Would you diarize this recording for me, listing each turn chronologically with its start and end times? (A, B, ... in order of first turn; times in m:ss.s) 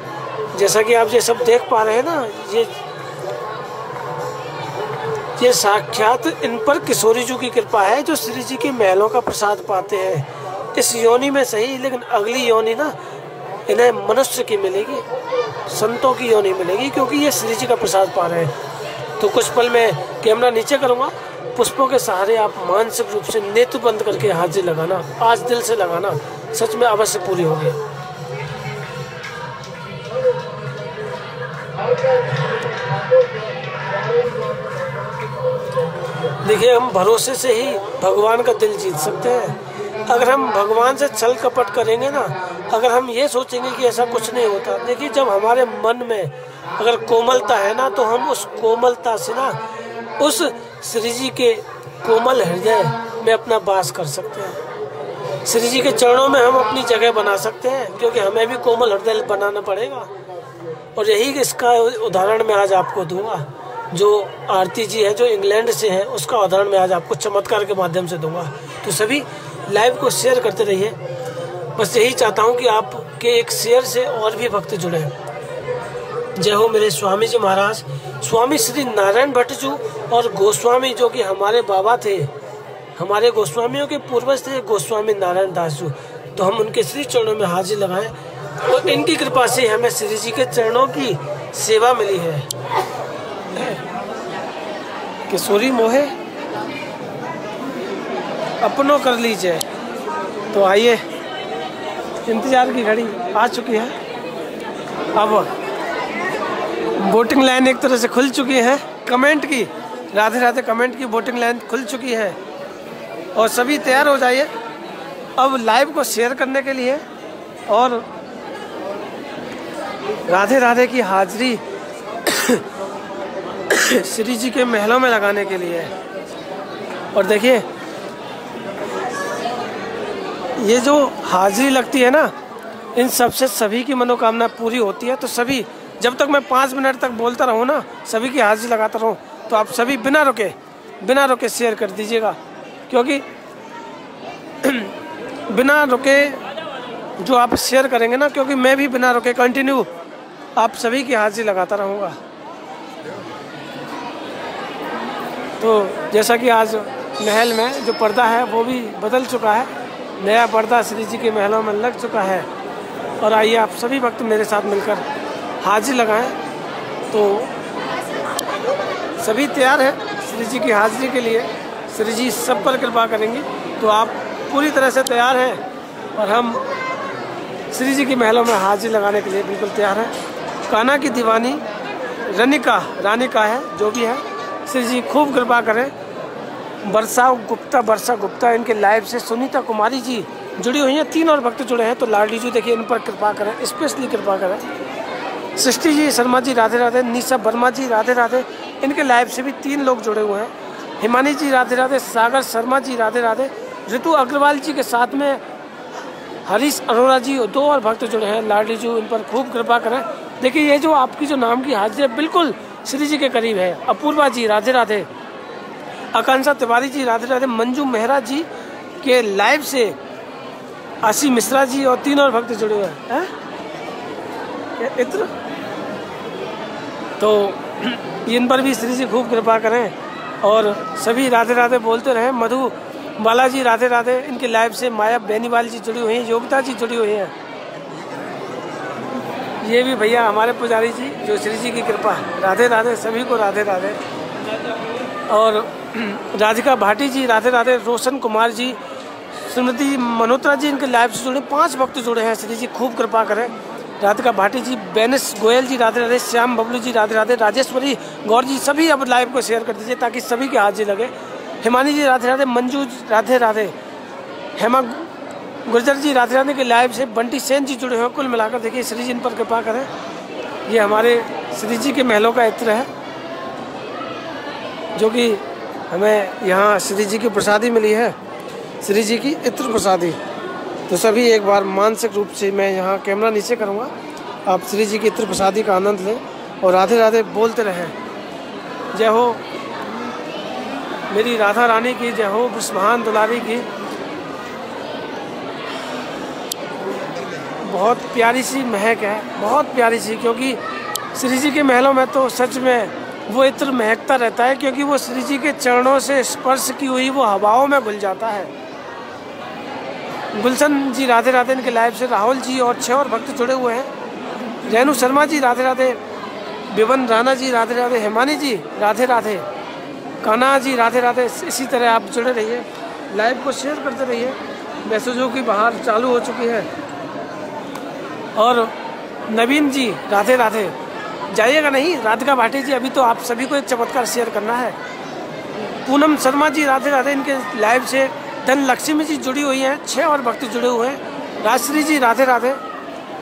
0:00.6-0:02.7 A
0:05.4-0:12.9 A
0:13.7-0:15.0 A
0:15.7-0:18.5 A
0:19.2-0:27.8 A
0:36.4-0:49.6 A
0:50.2-0:54.6 A
0:55.4-1:00.1 A
1:01.0-1:11.0 A
1:11.8-1:15.1 A
1:16.4-1:22.3 A
1:23.0-1:28.1 A
1:28.6-1:32.5 A
1:33.6-1:33.8 A
1:35.3-1:36.1 A
1:38.6-1:39.6 A
1:40.5-1:41.0 A
1:42.2-1:44.0 A
1:45.2-1:45.5 A
1:47.0-1:52.4 A
1:53.4-1:54.5 A
1:55.4-1:57.0 A
1:57.7-1:58.1 A
2:00.3-2:01.6 A
2:02.2-2:02.6 A
2:03.7-2:05.9 A
2:07.1-2:07.7 A
2:10.6-2:12.3 A
2:13.0-2:22.4 A
2:22.9-2:23.2 A
2:24.6-2:24.9 A
2:25.5-2:26.4 A
2:27.2-2:29.9 A
2:30.6-2:32.2 A
2:35.6-2:42.5 A
2:43.2-2:45.0 A
2:45.6-2:46.4 A
2:47.1-2:47.5 A
2:49.2-2:55.6 A
2:56.2-2:56.6 A
2:57.7-3:00.1 A
3:00.7-3:01.6 A
3:02.3-3:05.9 A
3:06.8-3:14.6 A
3:15.6-3:25.4 A
3:26.5-3:35.1 A
3:36.1-3:38.5 A
3:39.0-3:40.0 A
3:41.0-3:43.3 A
3:44.8-3:45.3 A
3:47.2-3:57.3 A
3:59.6-4:04.0 A
4:05.3-4:08.8 A
4:09.4-4:23.8 A
4:24.6-4:25.1 A
4:25.7-4:29.9 A
4:30.7-4:32.9 A
4:35.0-4:38.2 A
4:38.8-4:40.2 A
4:40.9-4:43.9 A
4:44.5-4:48.0 A
4:48.9-4:49.4 A
4:51.1-4:53.7 A
4:57.6-5:00.6 A
5:01.1-5:08.5 A
5:10.3-5:13.9 A
5:14.6-5:16.0 A
5:16.7-5:19.4 A
5:20.2-5:26.7 A
5:28.4-5:28.7 A
5:29.3-5:30.8 A
5:31.3-5:34.8 A
5:35.8-5:42.6 A